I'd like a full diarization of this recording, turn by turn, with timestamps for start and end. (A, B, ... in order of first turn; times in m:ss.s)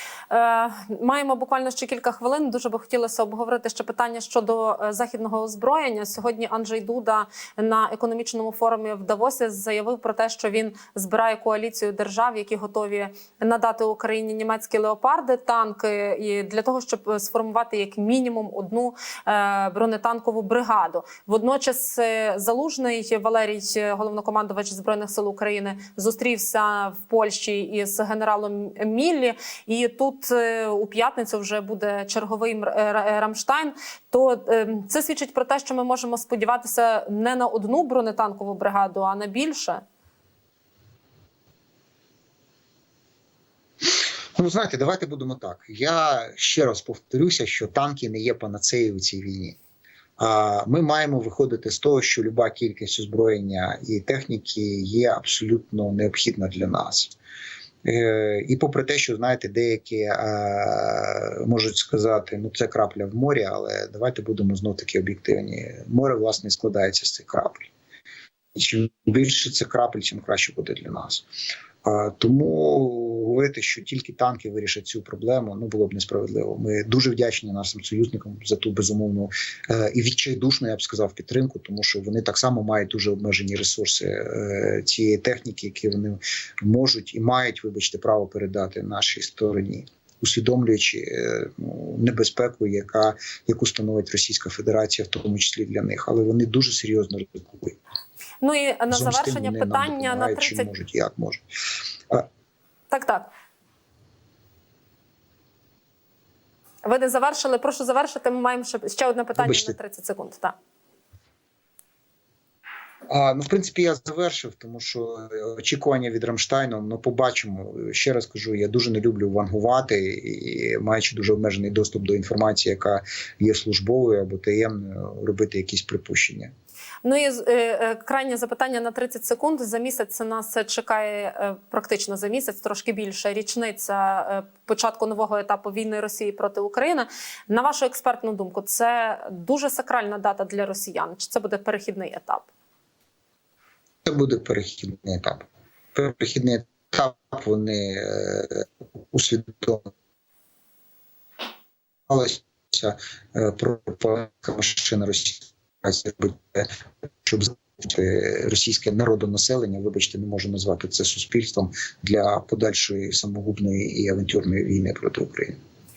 0:00.3-0:39.8 A
0:43.8-0:49.6 B
0:50.2-0:57.1 B
0:57.8-1:07.7 B
1:08.5-1:11.2 B
1:11.8-1:37.8 B
1:38.4-1:40.7 A
1:38.9-1:41.4 B
1:42.9-1:43.3 A
1:46.8-1:50.5 A
1:49.4-1:49.8 B
1:53.1-2:06.5 B
2:07.0-2:22.5 A
2:24.0-2:29.9 B
2:32.1-2:36.7 B
2:37.2-2:45.6 B